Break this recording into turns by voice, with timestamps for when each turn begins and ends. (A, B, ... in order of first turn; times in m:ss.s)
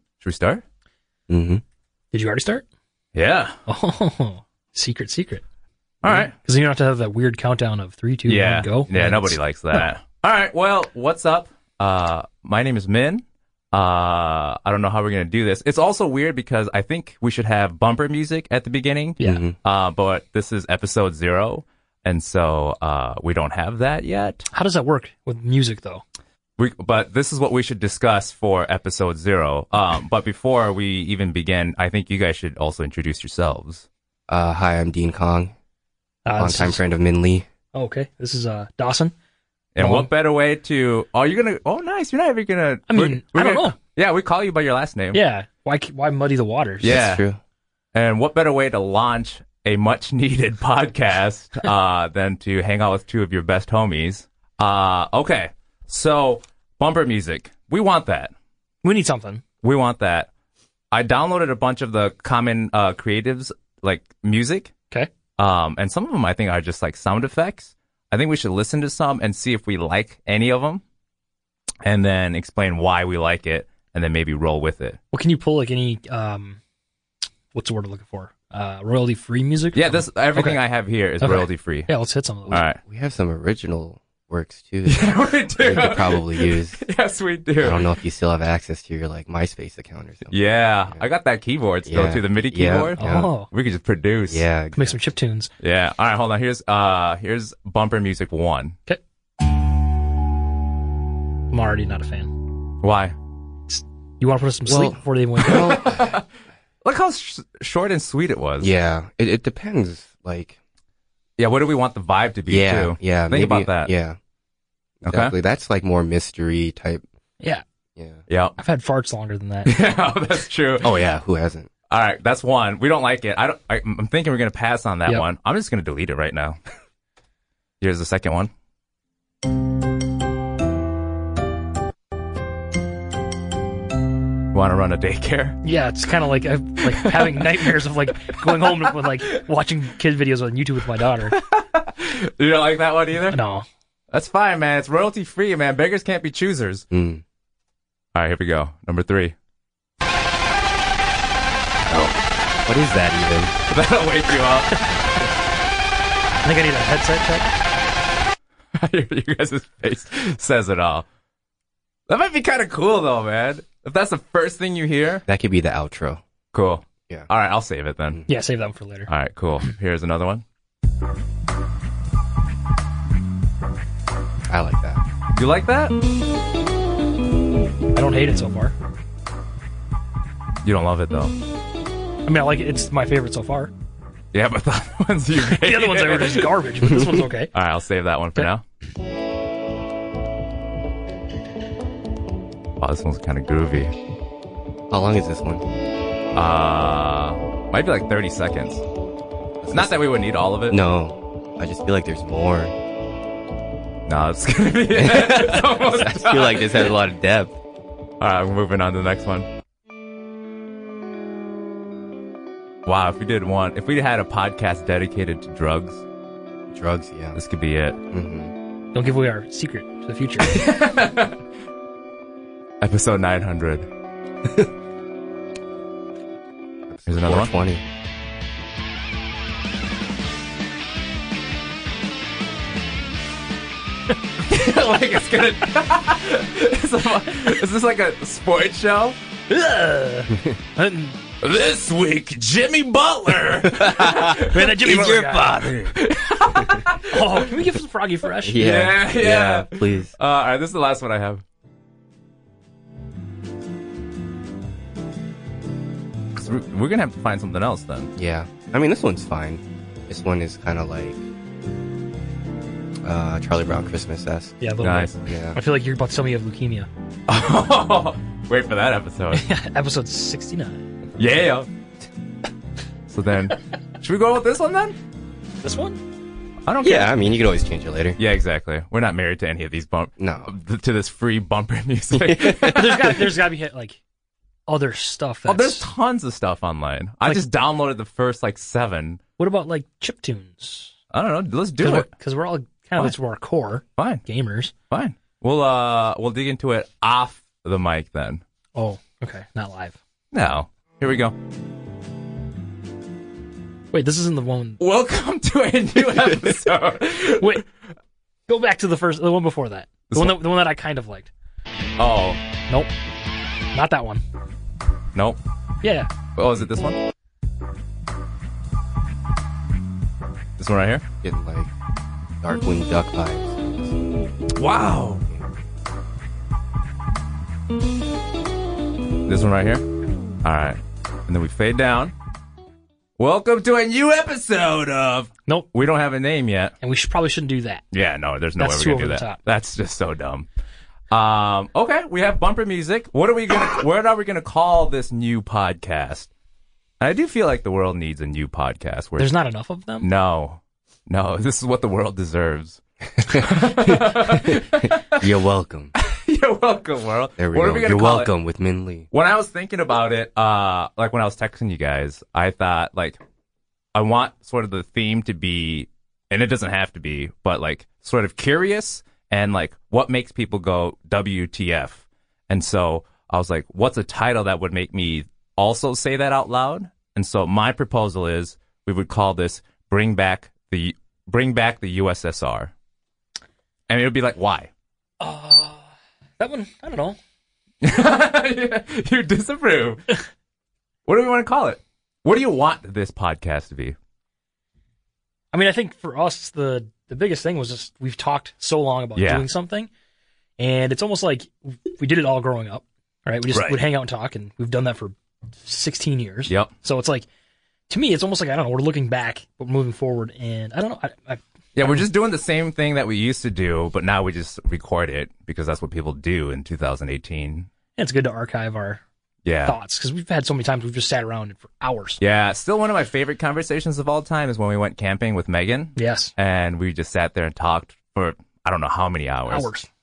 0:00.2-0:00.6 A
0:01.3-0:01.6 B
0:02.1-0:02.6 C
0:03.2-0:03.6 A
0:03.7-0:05.4 C
0:06.0-0:06.3 A
0:06.0-0:09.9 C
0:08.3-0:24.5 A
0:19.2-0:19.6 B
0:24.5-0:26.0 C
0:26.6-0:33.9 A
0:34.3-0:35.5 B
0:36.2-0:36.8 C
0:36.4-0:37.5 B
0:37.7-0:39.1 C
0:39.8-0:45.2 A
0:39.8-0:40.1 C
0:42.9-0:43.8 C
0:45.1-0:47.0 C
0:46.8-0:47.2 A
0:46.8-0:47.4 B
0:47.9-0:58.3 A
0:58.8-0:59.4 C
0:59.6-1:00.3 A
1:00.9-1:04.7 A
1:05.4-1:10.8 A
1:11.8-1:15.0 A
1:15.1-1:16.6 C
1:17.5-1:20.6 C
1:19.7-1:21.9 A
1:21.2-1:22.6 C
1:22.5-1:22.8 A
1:22.5-1:26.8 B
1:24.9-1:28.0 A
1:27.6-1:31.0 B
1:30.3-1:34.5 A
1:31.9-1:33.3 B
1:33.0-1:33.5 C
1:34.3-1:35.0 B
1:34.8-1:35.5 C
1:35.6-1:38.8 A
1:41.5-1:42.3 C
1:42.8-1:43.2 A
1:43.7-1:45.8 C
1:44.7-1:46.1 B
1:45.4-1:46.2 A
1:46.8-1:48.7 A
1:48.6-1:50.6 B
1:51.4-1:53.9 A
1:52.5-1:54.2 B
1:55.0-1:55.4 A
1:55.0-1:57.0 B
1:58.0-1:58.2 B
1:58.3-1:58.6 A
1:58.6-1:59.7 C
1:59.7-2:01.0 A
2:00.8-2:01.7 B
2:01.9-2:06.6 A
2:07.8-2:08.5 A
2:14.5-2:15.6 A
2:15.6-2:21.4 C
2:16.9-2:17.8 A
2:18.3-2:18.9 A
2:21.3-2:23.4 A
2:23.3-2:23.6 C
2:24.1-2:26.9 A
2:26.9-2:27.2 B
2:28.2-2:29.3 A
2:31.9-2:33.6 B
2:33.7-2:34.8 A
2:36.4-2:37.5 C
2:38.8-2:41.0 A
2:42.1-2:45.3 A
2:45.3-2:46.2 B
2:46.5-2:48.2 A
2:48.3-2:49.1 C
2:49.1-2:50.4 A
2:54.5-2:55.0 B
2:55.4-2:56.0 A
2:57.9-2:58.7 C
3:00.6-3:01.4 A
3:02.3-3:03.7 C
3:04.3-3:06.5 A
3:05.4-3:07.5 C
3:07.5-3:08.6 A
3:12.8-3:13.9 A
3:14.9-3:15.6 B
3:16.3-3:18.8 A
3:19.6-3:20.0 B
3:19.7-3:20.8 A
3:20.7-3:22.7 B
3:24.1-3:26.9 A
3:24.9-3:27.6 B
3:28.2-3:29.5 A
3:32.9-3:36.0 A
3:36.7-3:37.4 B
3:37.3-3:38.0 A
3:38.1-3:38.5 B
3:38.9-3:40.6 C
3:40.4-3:41.4 A
3:42.8-3:43.9 A
3:46.9-3:47.8 B
3:47.1-3:47.5 A
3:54.5-3:59.2 A
3:59.5-4:01.2 C
4:01.4-4:07.5 A
4:03.6-4:05.4 B
4:04.4-4:05.9 C
4:07.1-4:08.7 C
4:08.4-4:10.1 B
4:08.6-4:11.4 A
4:16.4-4:18.1 A
4:18.2-4:21.2 B
4:23.0-4:24.6 B
4:24.6-4:26.9 C
4:24.8-4:25.2 A
4:25.2-4:25.6 B
4:27.3-4:29.4 A
4:29.3-4:30.8 C
4:31.2-4:31.7 A
4:33.1-4:35.0 A
4:35.6-4:36.0 C
4:36.7-4:37.2 A
4:36.8-4:38.2 B
4:38.2-4:43.3 A
4:40.2-4:40.5 B
4:42.1-4:42.9 B
4:42.7-4:44.0 C
4:44.7-4:45.9 C
4:45.4-4:49.2 A
4:49.4-4:50.9 C
4:51.1-4:52.1 A
4:51.8-4:54.7 C
4:54.9-4:58.4 A
4:58.8-5:00.0 C
5:00.3-5:01.4 A
5:03.9-5:04.8 C
5:04.8-5:07.6 A
5:07.4-5:07.6 C
5:08.5-5:11.3 C
5:10.1-5:10.4 A
5:12.0-5:12.4 A
5:13.7-5:14.2 C
5:15.8-5:16.1 C
5:16.4-5:17.0 A
5:20.6-5:21.0 A
5:21.2-5:21.7 B
5:22.4-5:24.2 B
5:24.6-5:25.2 A
5:25.3-5:25.5 B
5:29.3-5:29.8 A
5:30.4-5:32.1 A
5:33.2-5:36.7 A
5:36.8-5:37.8 C
5:37.9-5:40.5 A
5:38.6-5:39.4 C
5:41.1-5:46.3 A
5:47.0-5:49.3 A
5:49.2-5:50.1 C
5:50.0-5:55.3 A
5:53.8-5:55.9 B
5:56.0-5:58.3 A
5:57.4-5:59.1 B
5:59.1-6:03.2 A
6:04.0-6:22.7 A
6:23.9-6:24.7 A
6:25.2-6:25.9 C
6:26.4-6:27.2 C
6:27.8-6:30.2 A
6:31.1-6:34.0 A
6:35.5-6:39.9 C
6:39.2-6:39.5 A
6:40.6-6:47.3 C
6:43.5-6:43.8 A
6:47.9-6:52.1 C
6:51.8-6:57.7 A
6:58.0-6:59.0 C
6:59.4-6:59.8 A
6:59.6-7:02.2 C
7:02.2-7:09.7 A
7:06.0-7:06.3 C
7:09.5-7:09.9 C